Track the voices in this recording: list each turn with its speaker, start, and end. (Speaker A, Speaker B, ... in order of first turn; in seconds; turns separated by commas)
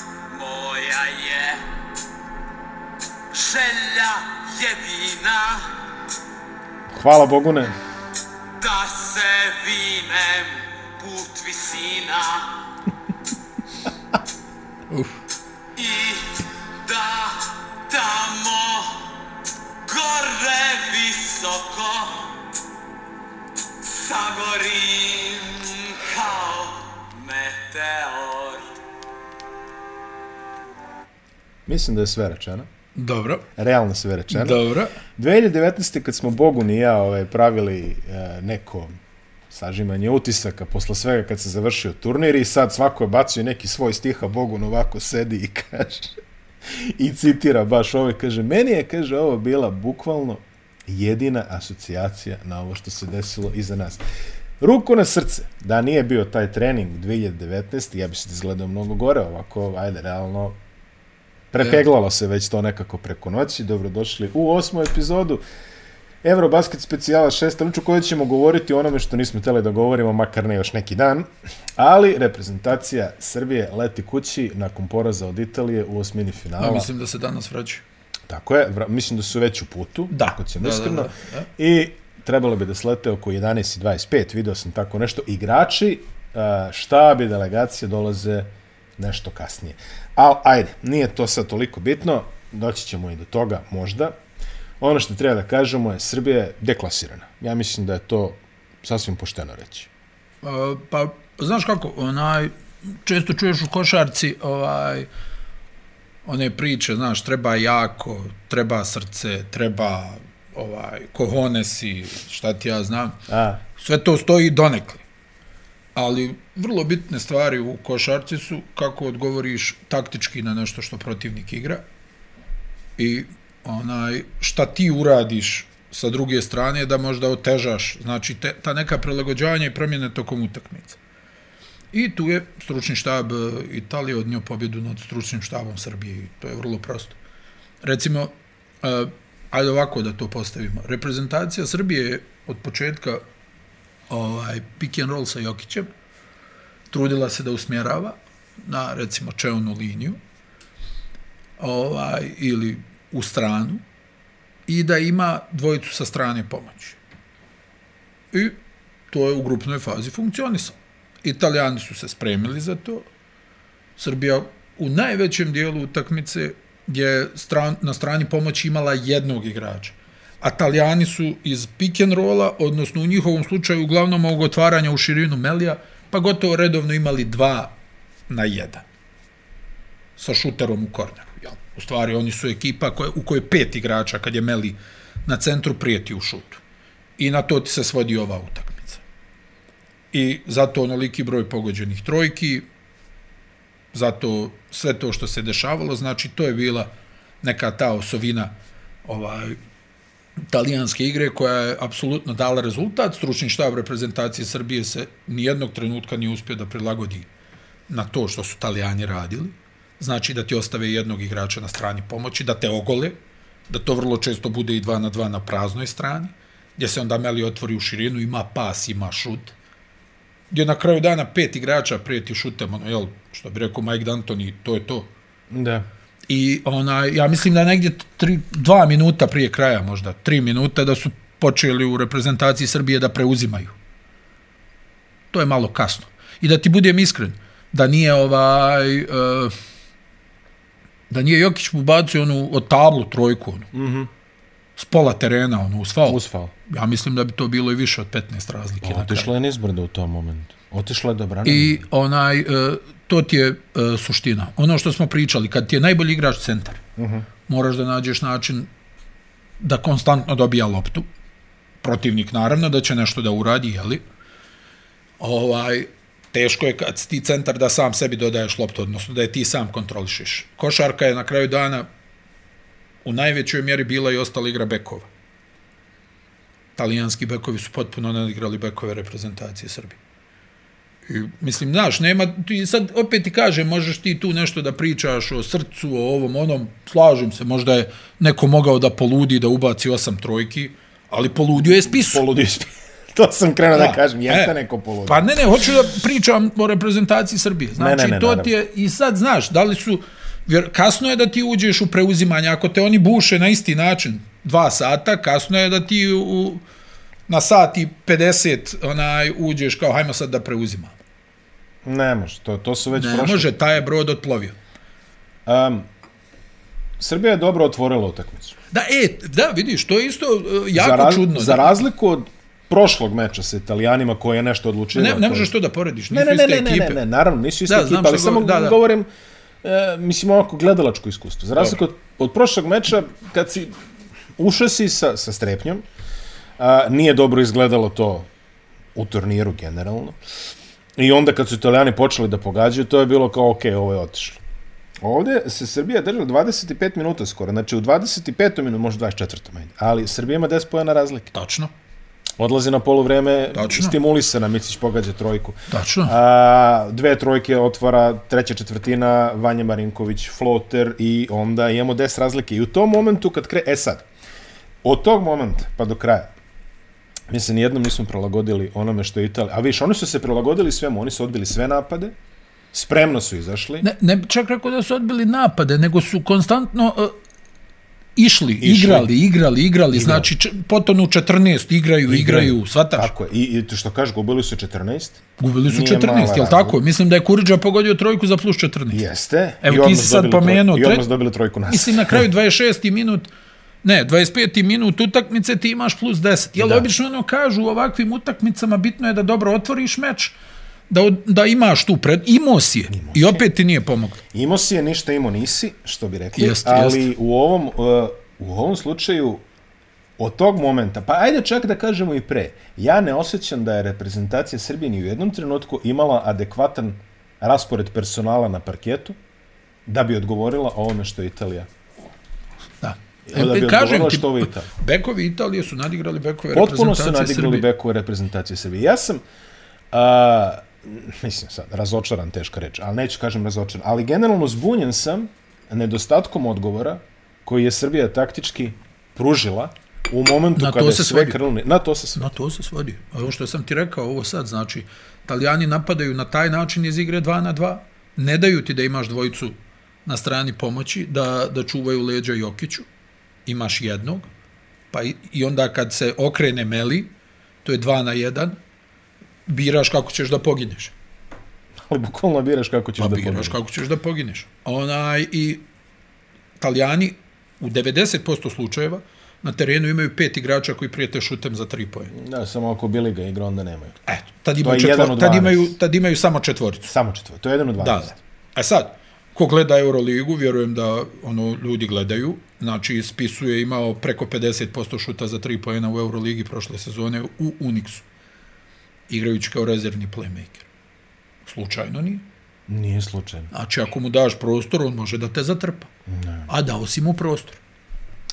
Speaker A: 0.3-1.6, Speaker A: 3.3-5.8, Speaker B: 6.9-7.7, Speaker A: 8.6-12.6, Speaker C: 14.9-15.2, Speaker A: 15.8-19.2, Speaker A: 19.9-22.4, Speaker A: 23.8-28.7, Speaker B: 31.7-32.7, Speaker C: 33.0-33.5, Speaker B: 33.6-34.6, Speaker C: 34.3-35.0, Speaker B: 35.2-38.9, Speaker B: 39.5-54.0, Speaker B: 54.6-60.6, Speaker B: 61.5-65.4, Speaker B: 66.2-76.9, Speaker C: 76.6-77.8, Speaker B: 78.3-94.2, Speaker C: 80.1-81.5, Speaker B: 94.8-99.9, Speaker C: 100.4-105.1, Speaker C: 106.2-113.2, Speaker B: 113.3-113.6, Speaker C: 113.8-115.0, Speaker C: 116.0-121.8, Speaker C: 123.0-131.0, Speaker C: 131.9-137.2, Speaker C: 137.8-143.2, Speaker C: 144.1-145.9, Speaker C: 146.9-150.2, Speaker C: 151.6-153.8, Speaker C: 154.7-157.0, Speaker C: 158.3-158.6, Speaker C: 159.1-163.1, Speaker C: 164.0-177.7, Speaker C: 178.3-178.8, Speaker C: 180.2-186.6, Speaker C: 187.2-189.0, Speaker C: 190.1-192.7, Speaker C: 193.9-198.5, Speaker C: 199.1-199.6, Speaker C: 200.5-207.3, Speaker C: 207.9-213.2, Speaker C: 213.7-219.5, Speaker C: 220.5-225.1, Speaker B: 225.5-225.9, Speaker C: 226.3-233.8, Speaker C: 235.3-239.6, Speaker C: 241.1-243.7, Speaker B: 243.7-244.1, Speaker C: 244.8-249.3, Speaker B: 246.1-246.5, Speaker B: 248.8-251.8, Speaker C: 251.4-256.8, Speaker B: 257.0-257.3, Speaker C: 257.5-258.7, Speaker C: 259.6-261.1, Speaker C: 261.8-264.0, Speaker C: 265.2-271.9, Speaker C: 273.0-275.1, Speaker C: 276.8-280.0, Speaker C: 281.1-292.3, Speaker B: 291.6-295.6, Speaker C: 293.7-294.5, Speaker C: 295.1-306.6, Speaker B: 297.8-298.5, Speaker C: 307.3-311.0, Speaker B: 311.9-313.5, Speaker C: 312.9-314.6, Speaker B: 315.5-315.9, Speaker B: 317.0-318.6, Speaker C: 318.7-321.8, Speaker B: 320.7-325.5, Speaker C: 324.9-327.0, Speaker B: 326.1-329.1, Speaker C: 327.7-328.8, Speaker B: 329.6-333.8, Speaker B: 334.4-335.8, Speaker B: 336.6-338.3, Speaker B: 338.9-340.2, Speaker B: 341.0-344.4, Speaker B: 345.0-351.3, Speaker C: 351.3-351.7, Speaker B: 352.4-364.1, Speaker C: 353.5-354.0, Speaker C: 355.7-356.1, Speaker B: 364.8-366.3, Speaker B: 367.3-372.1, Speaker B: 372.7-373.9, Speaker C: 373.8-377.1, Speaker C: 378.2-383.1, Speaker B: 378.6-379.1, Speaker B: 379.9-380.3, Speaker B: 382.1-386.8, Speaker C: 385.4-389.0, Speaker B: 388.9-392.2, Speaker C: 389.6-391.1, Speaker C: 391.7-393.3, Speaker C: 393.8-400.4, Speaker B: 396.6-396.9, Speaker C: 400.9-404.2, Speaker B: 402.9-403.4, Speaker B: 404.3-409.4, Speaker C: 406.4-407.1, Speaker B: 410.2-419.2, Speaker B: 419.9-421.7, Speaker C: 422.8-427.7, Speaker B: 423.3-424.7, Speaker B: 426.5-429.2, Speaker B: 429.9-442.2, Speaker C: 440.6-441.4, Speaker C: 442.2-452.9, Speaker C: 453.5-454.3, Speaker C: 454.9-457.1, Speaker C: 457.6-458.6, Speaker C: 459.5-460.9, Speaker B: 461.9-463.6, Speaker C: 463.0-465.6, Speaker C: 466.6-472.1, Speaker B: 472.1-474.0, Speaker C: 474.1-476.9, Speaker B: 474.6-475.8, Speaker B: 476.9-478.2, Speaker C: 477.8-488.1, Speaker C: 489.1-490.7, Speaker C: 491.5-492.2, Speaker B: 492.7-493.5, Speaker C: 493.5-495.9, Speaker B: 496.1-496.5, Speaker C: 496.5-497.6